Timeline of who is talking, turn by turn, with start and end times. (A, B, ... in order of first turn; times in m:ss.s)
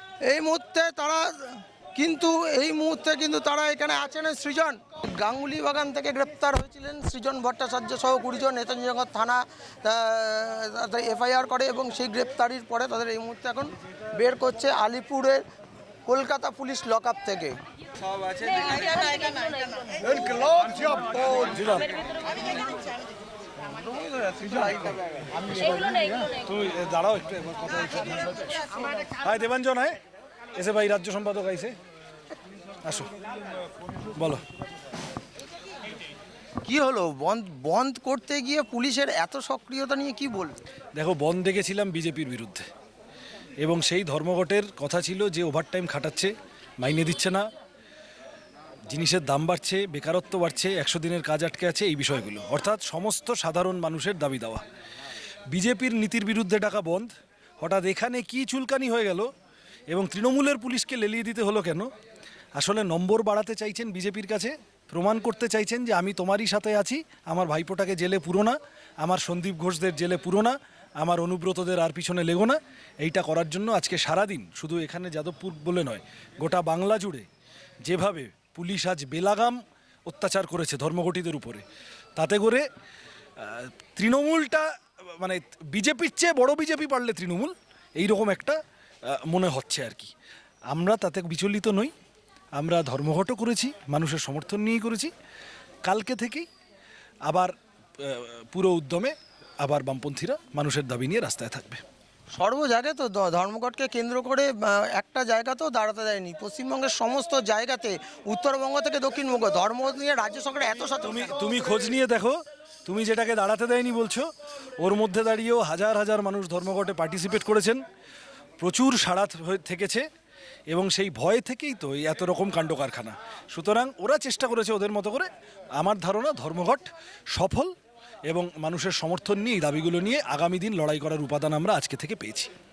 0:00.2-0:15.4 A
0:16.1-0:17.6 A
0:18.3-0:20.8 A
0:21.2-0:22.2 B
0:23.7-0:25.4 A
0:25.5-0:30.0 B
0:30.6-0:31.8 B
0:32.8-0:33.1 B
0:34.2-0:34.4 B
0:36.6-0:40.6 A
0:41.0-0:42.6 B
0:43.6-0:47.4 B
0:48.9-0:54.6 B
0:55.5-0:59.3 B
0:59.9-1:01.9 B
1:02.6-1:17.3 B
1:17.8-1:21.6 B
1:22.2-1:22.6 B
1:23.4-1:30.1 B
1:30.7-1:31.9 B
1:32.6-1:35.1 B
1:35.8-1:36.5 B
1:37.3-1:41.8 B
1:42.3-1:51.4 A
1:51.1-1:57.8 B
1:58.6-2:00.1 B
2:00.7-2:07.7 B
2:08.3-2:12.5 B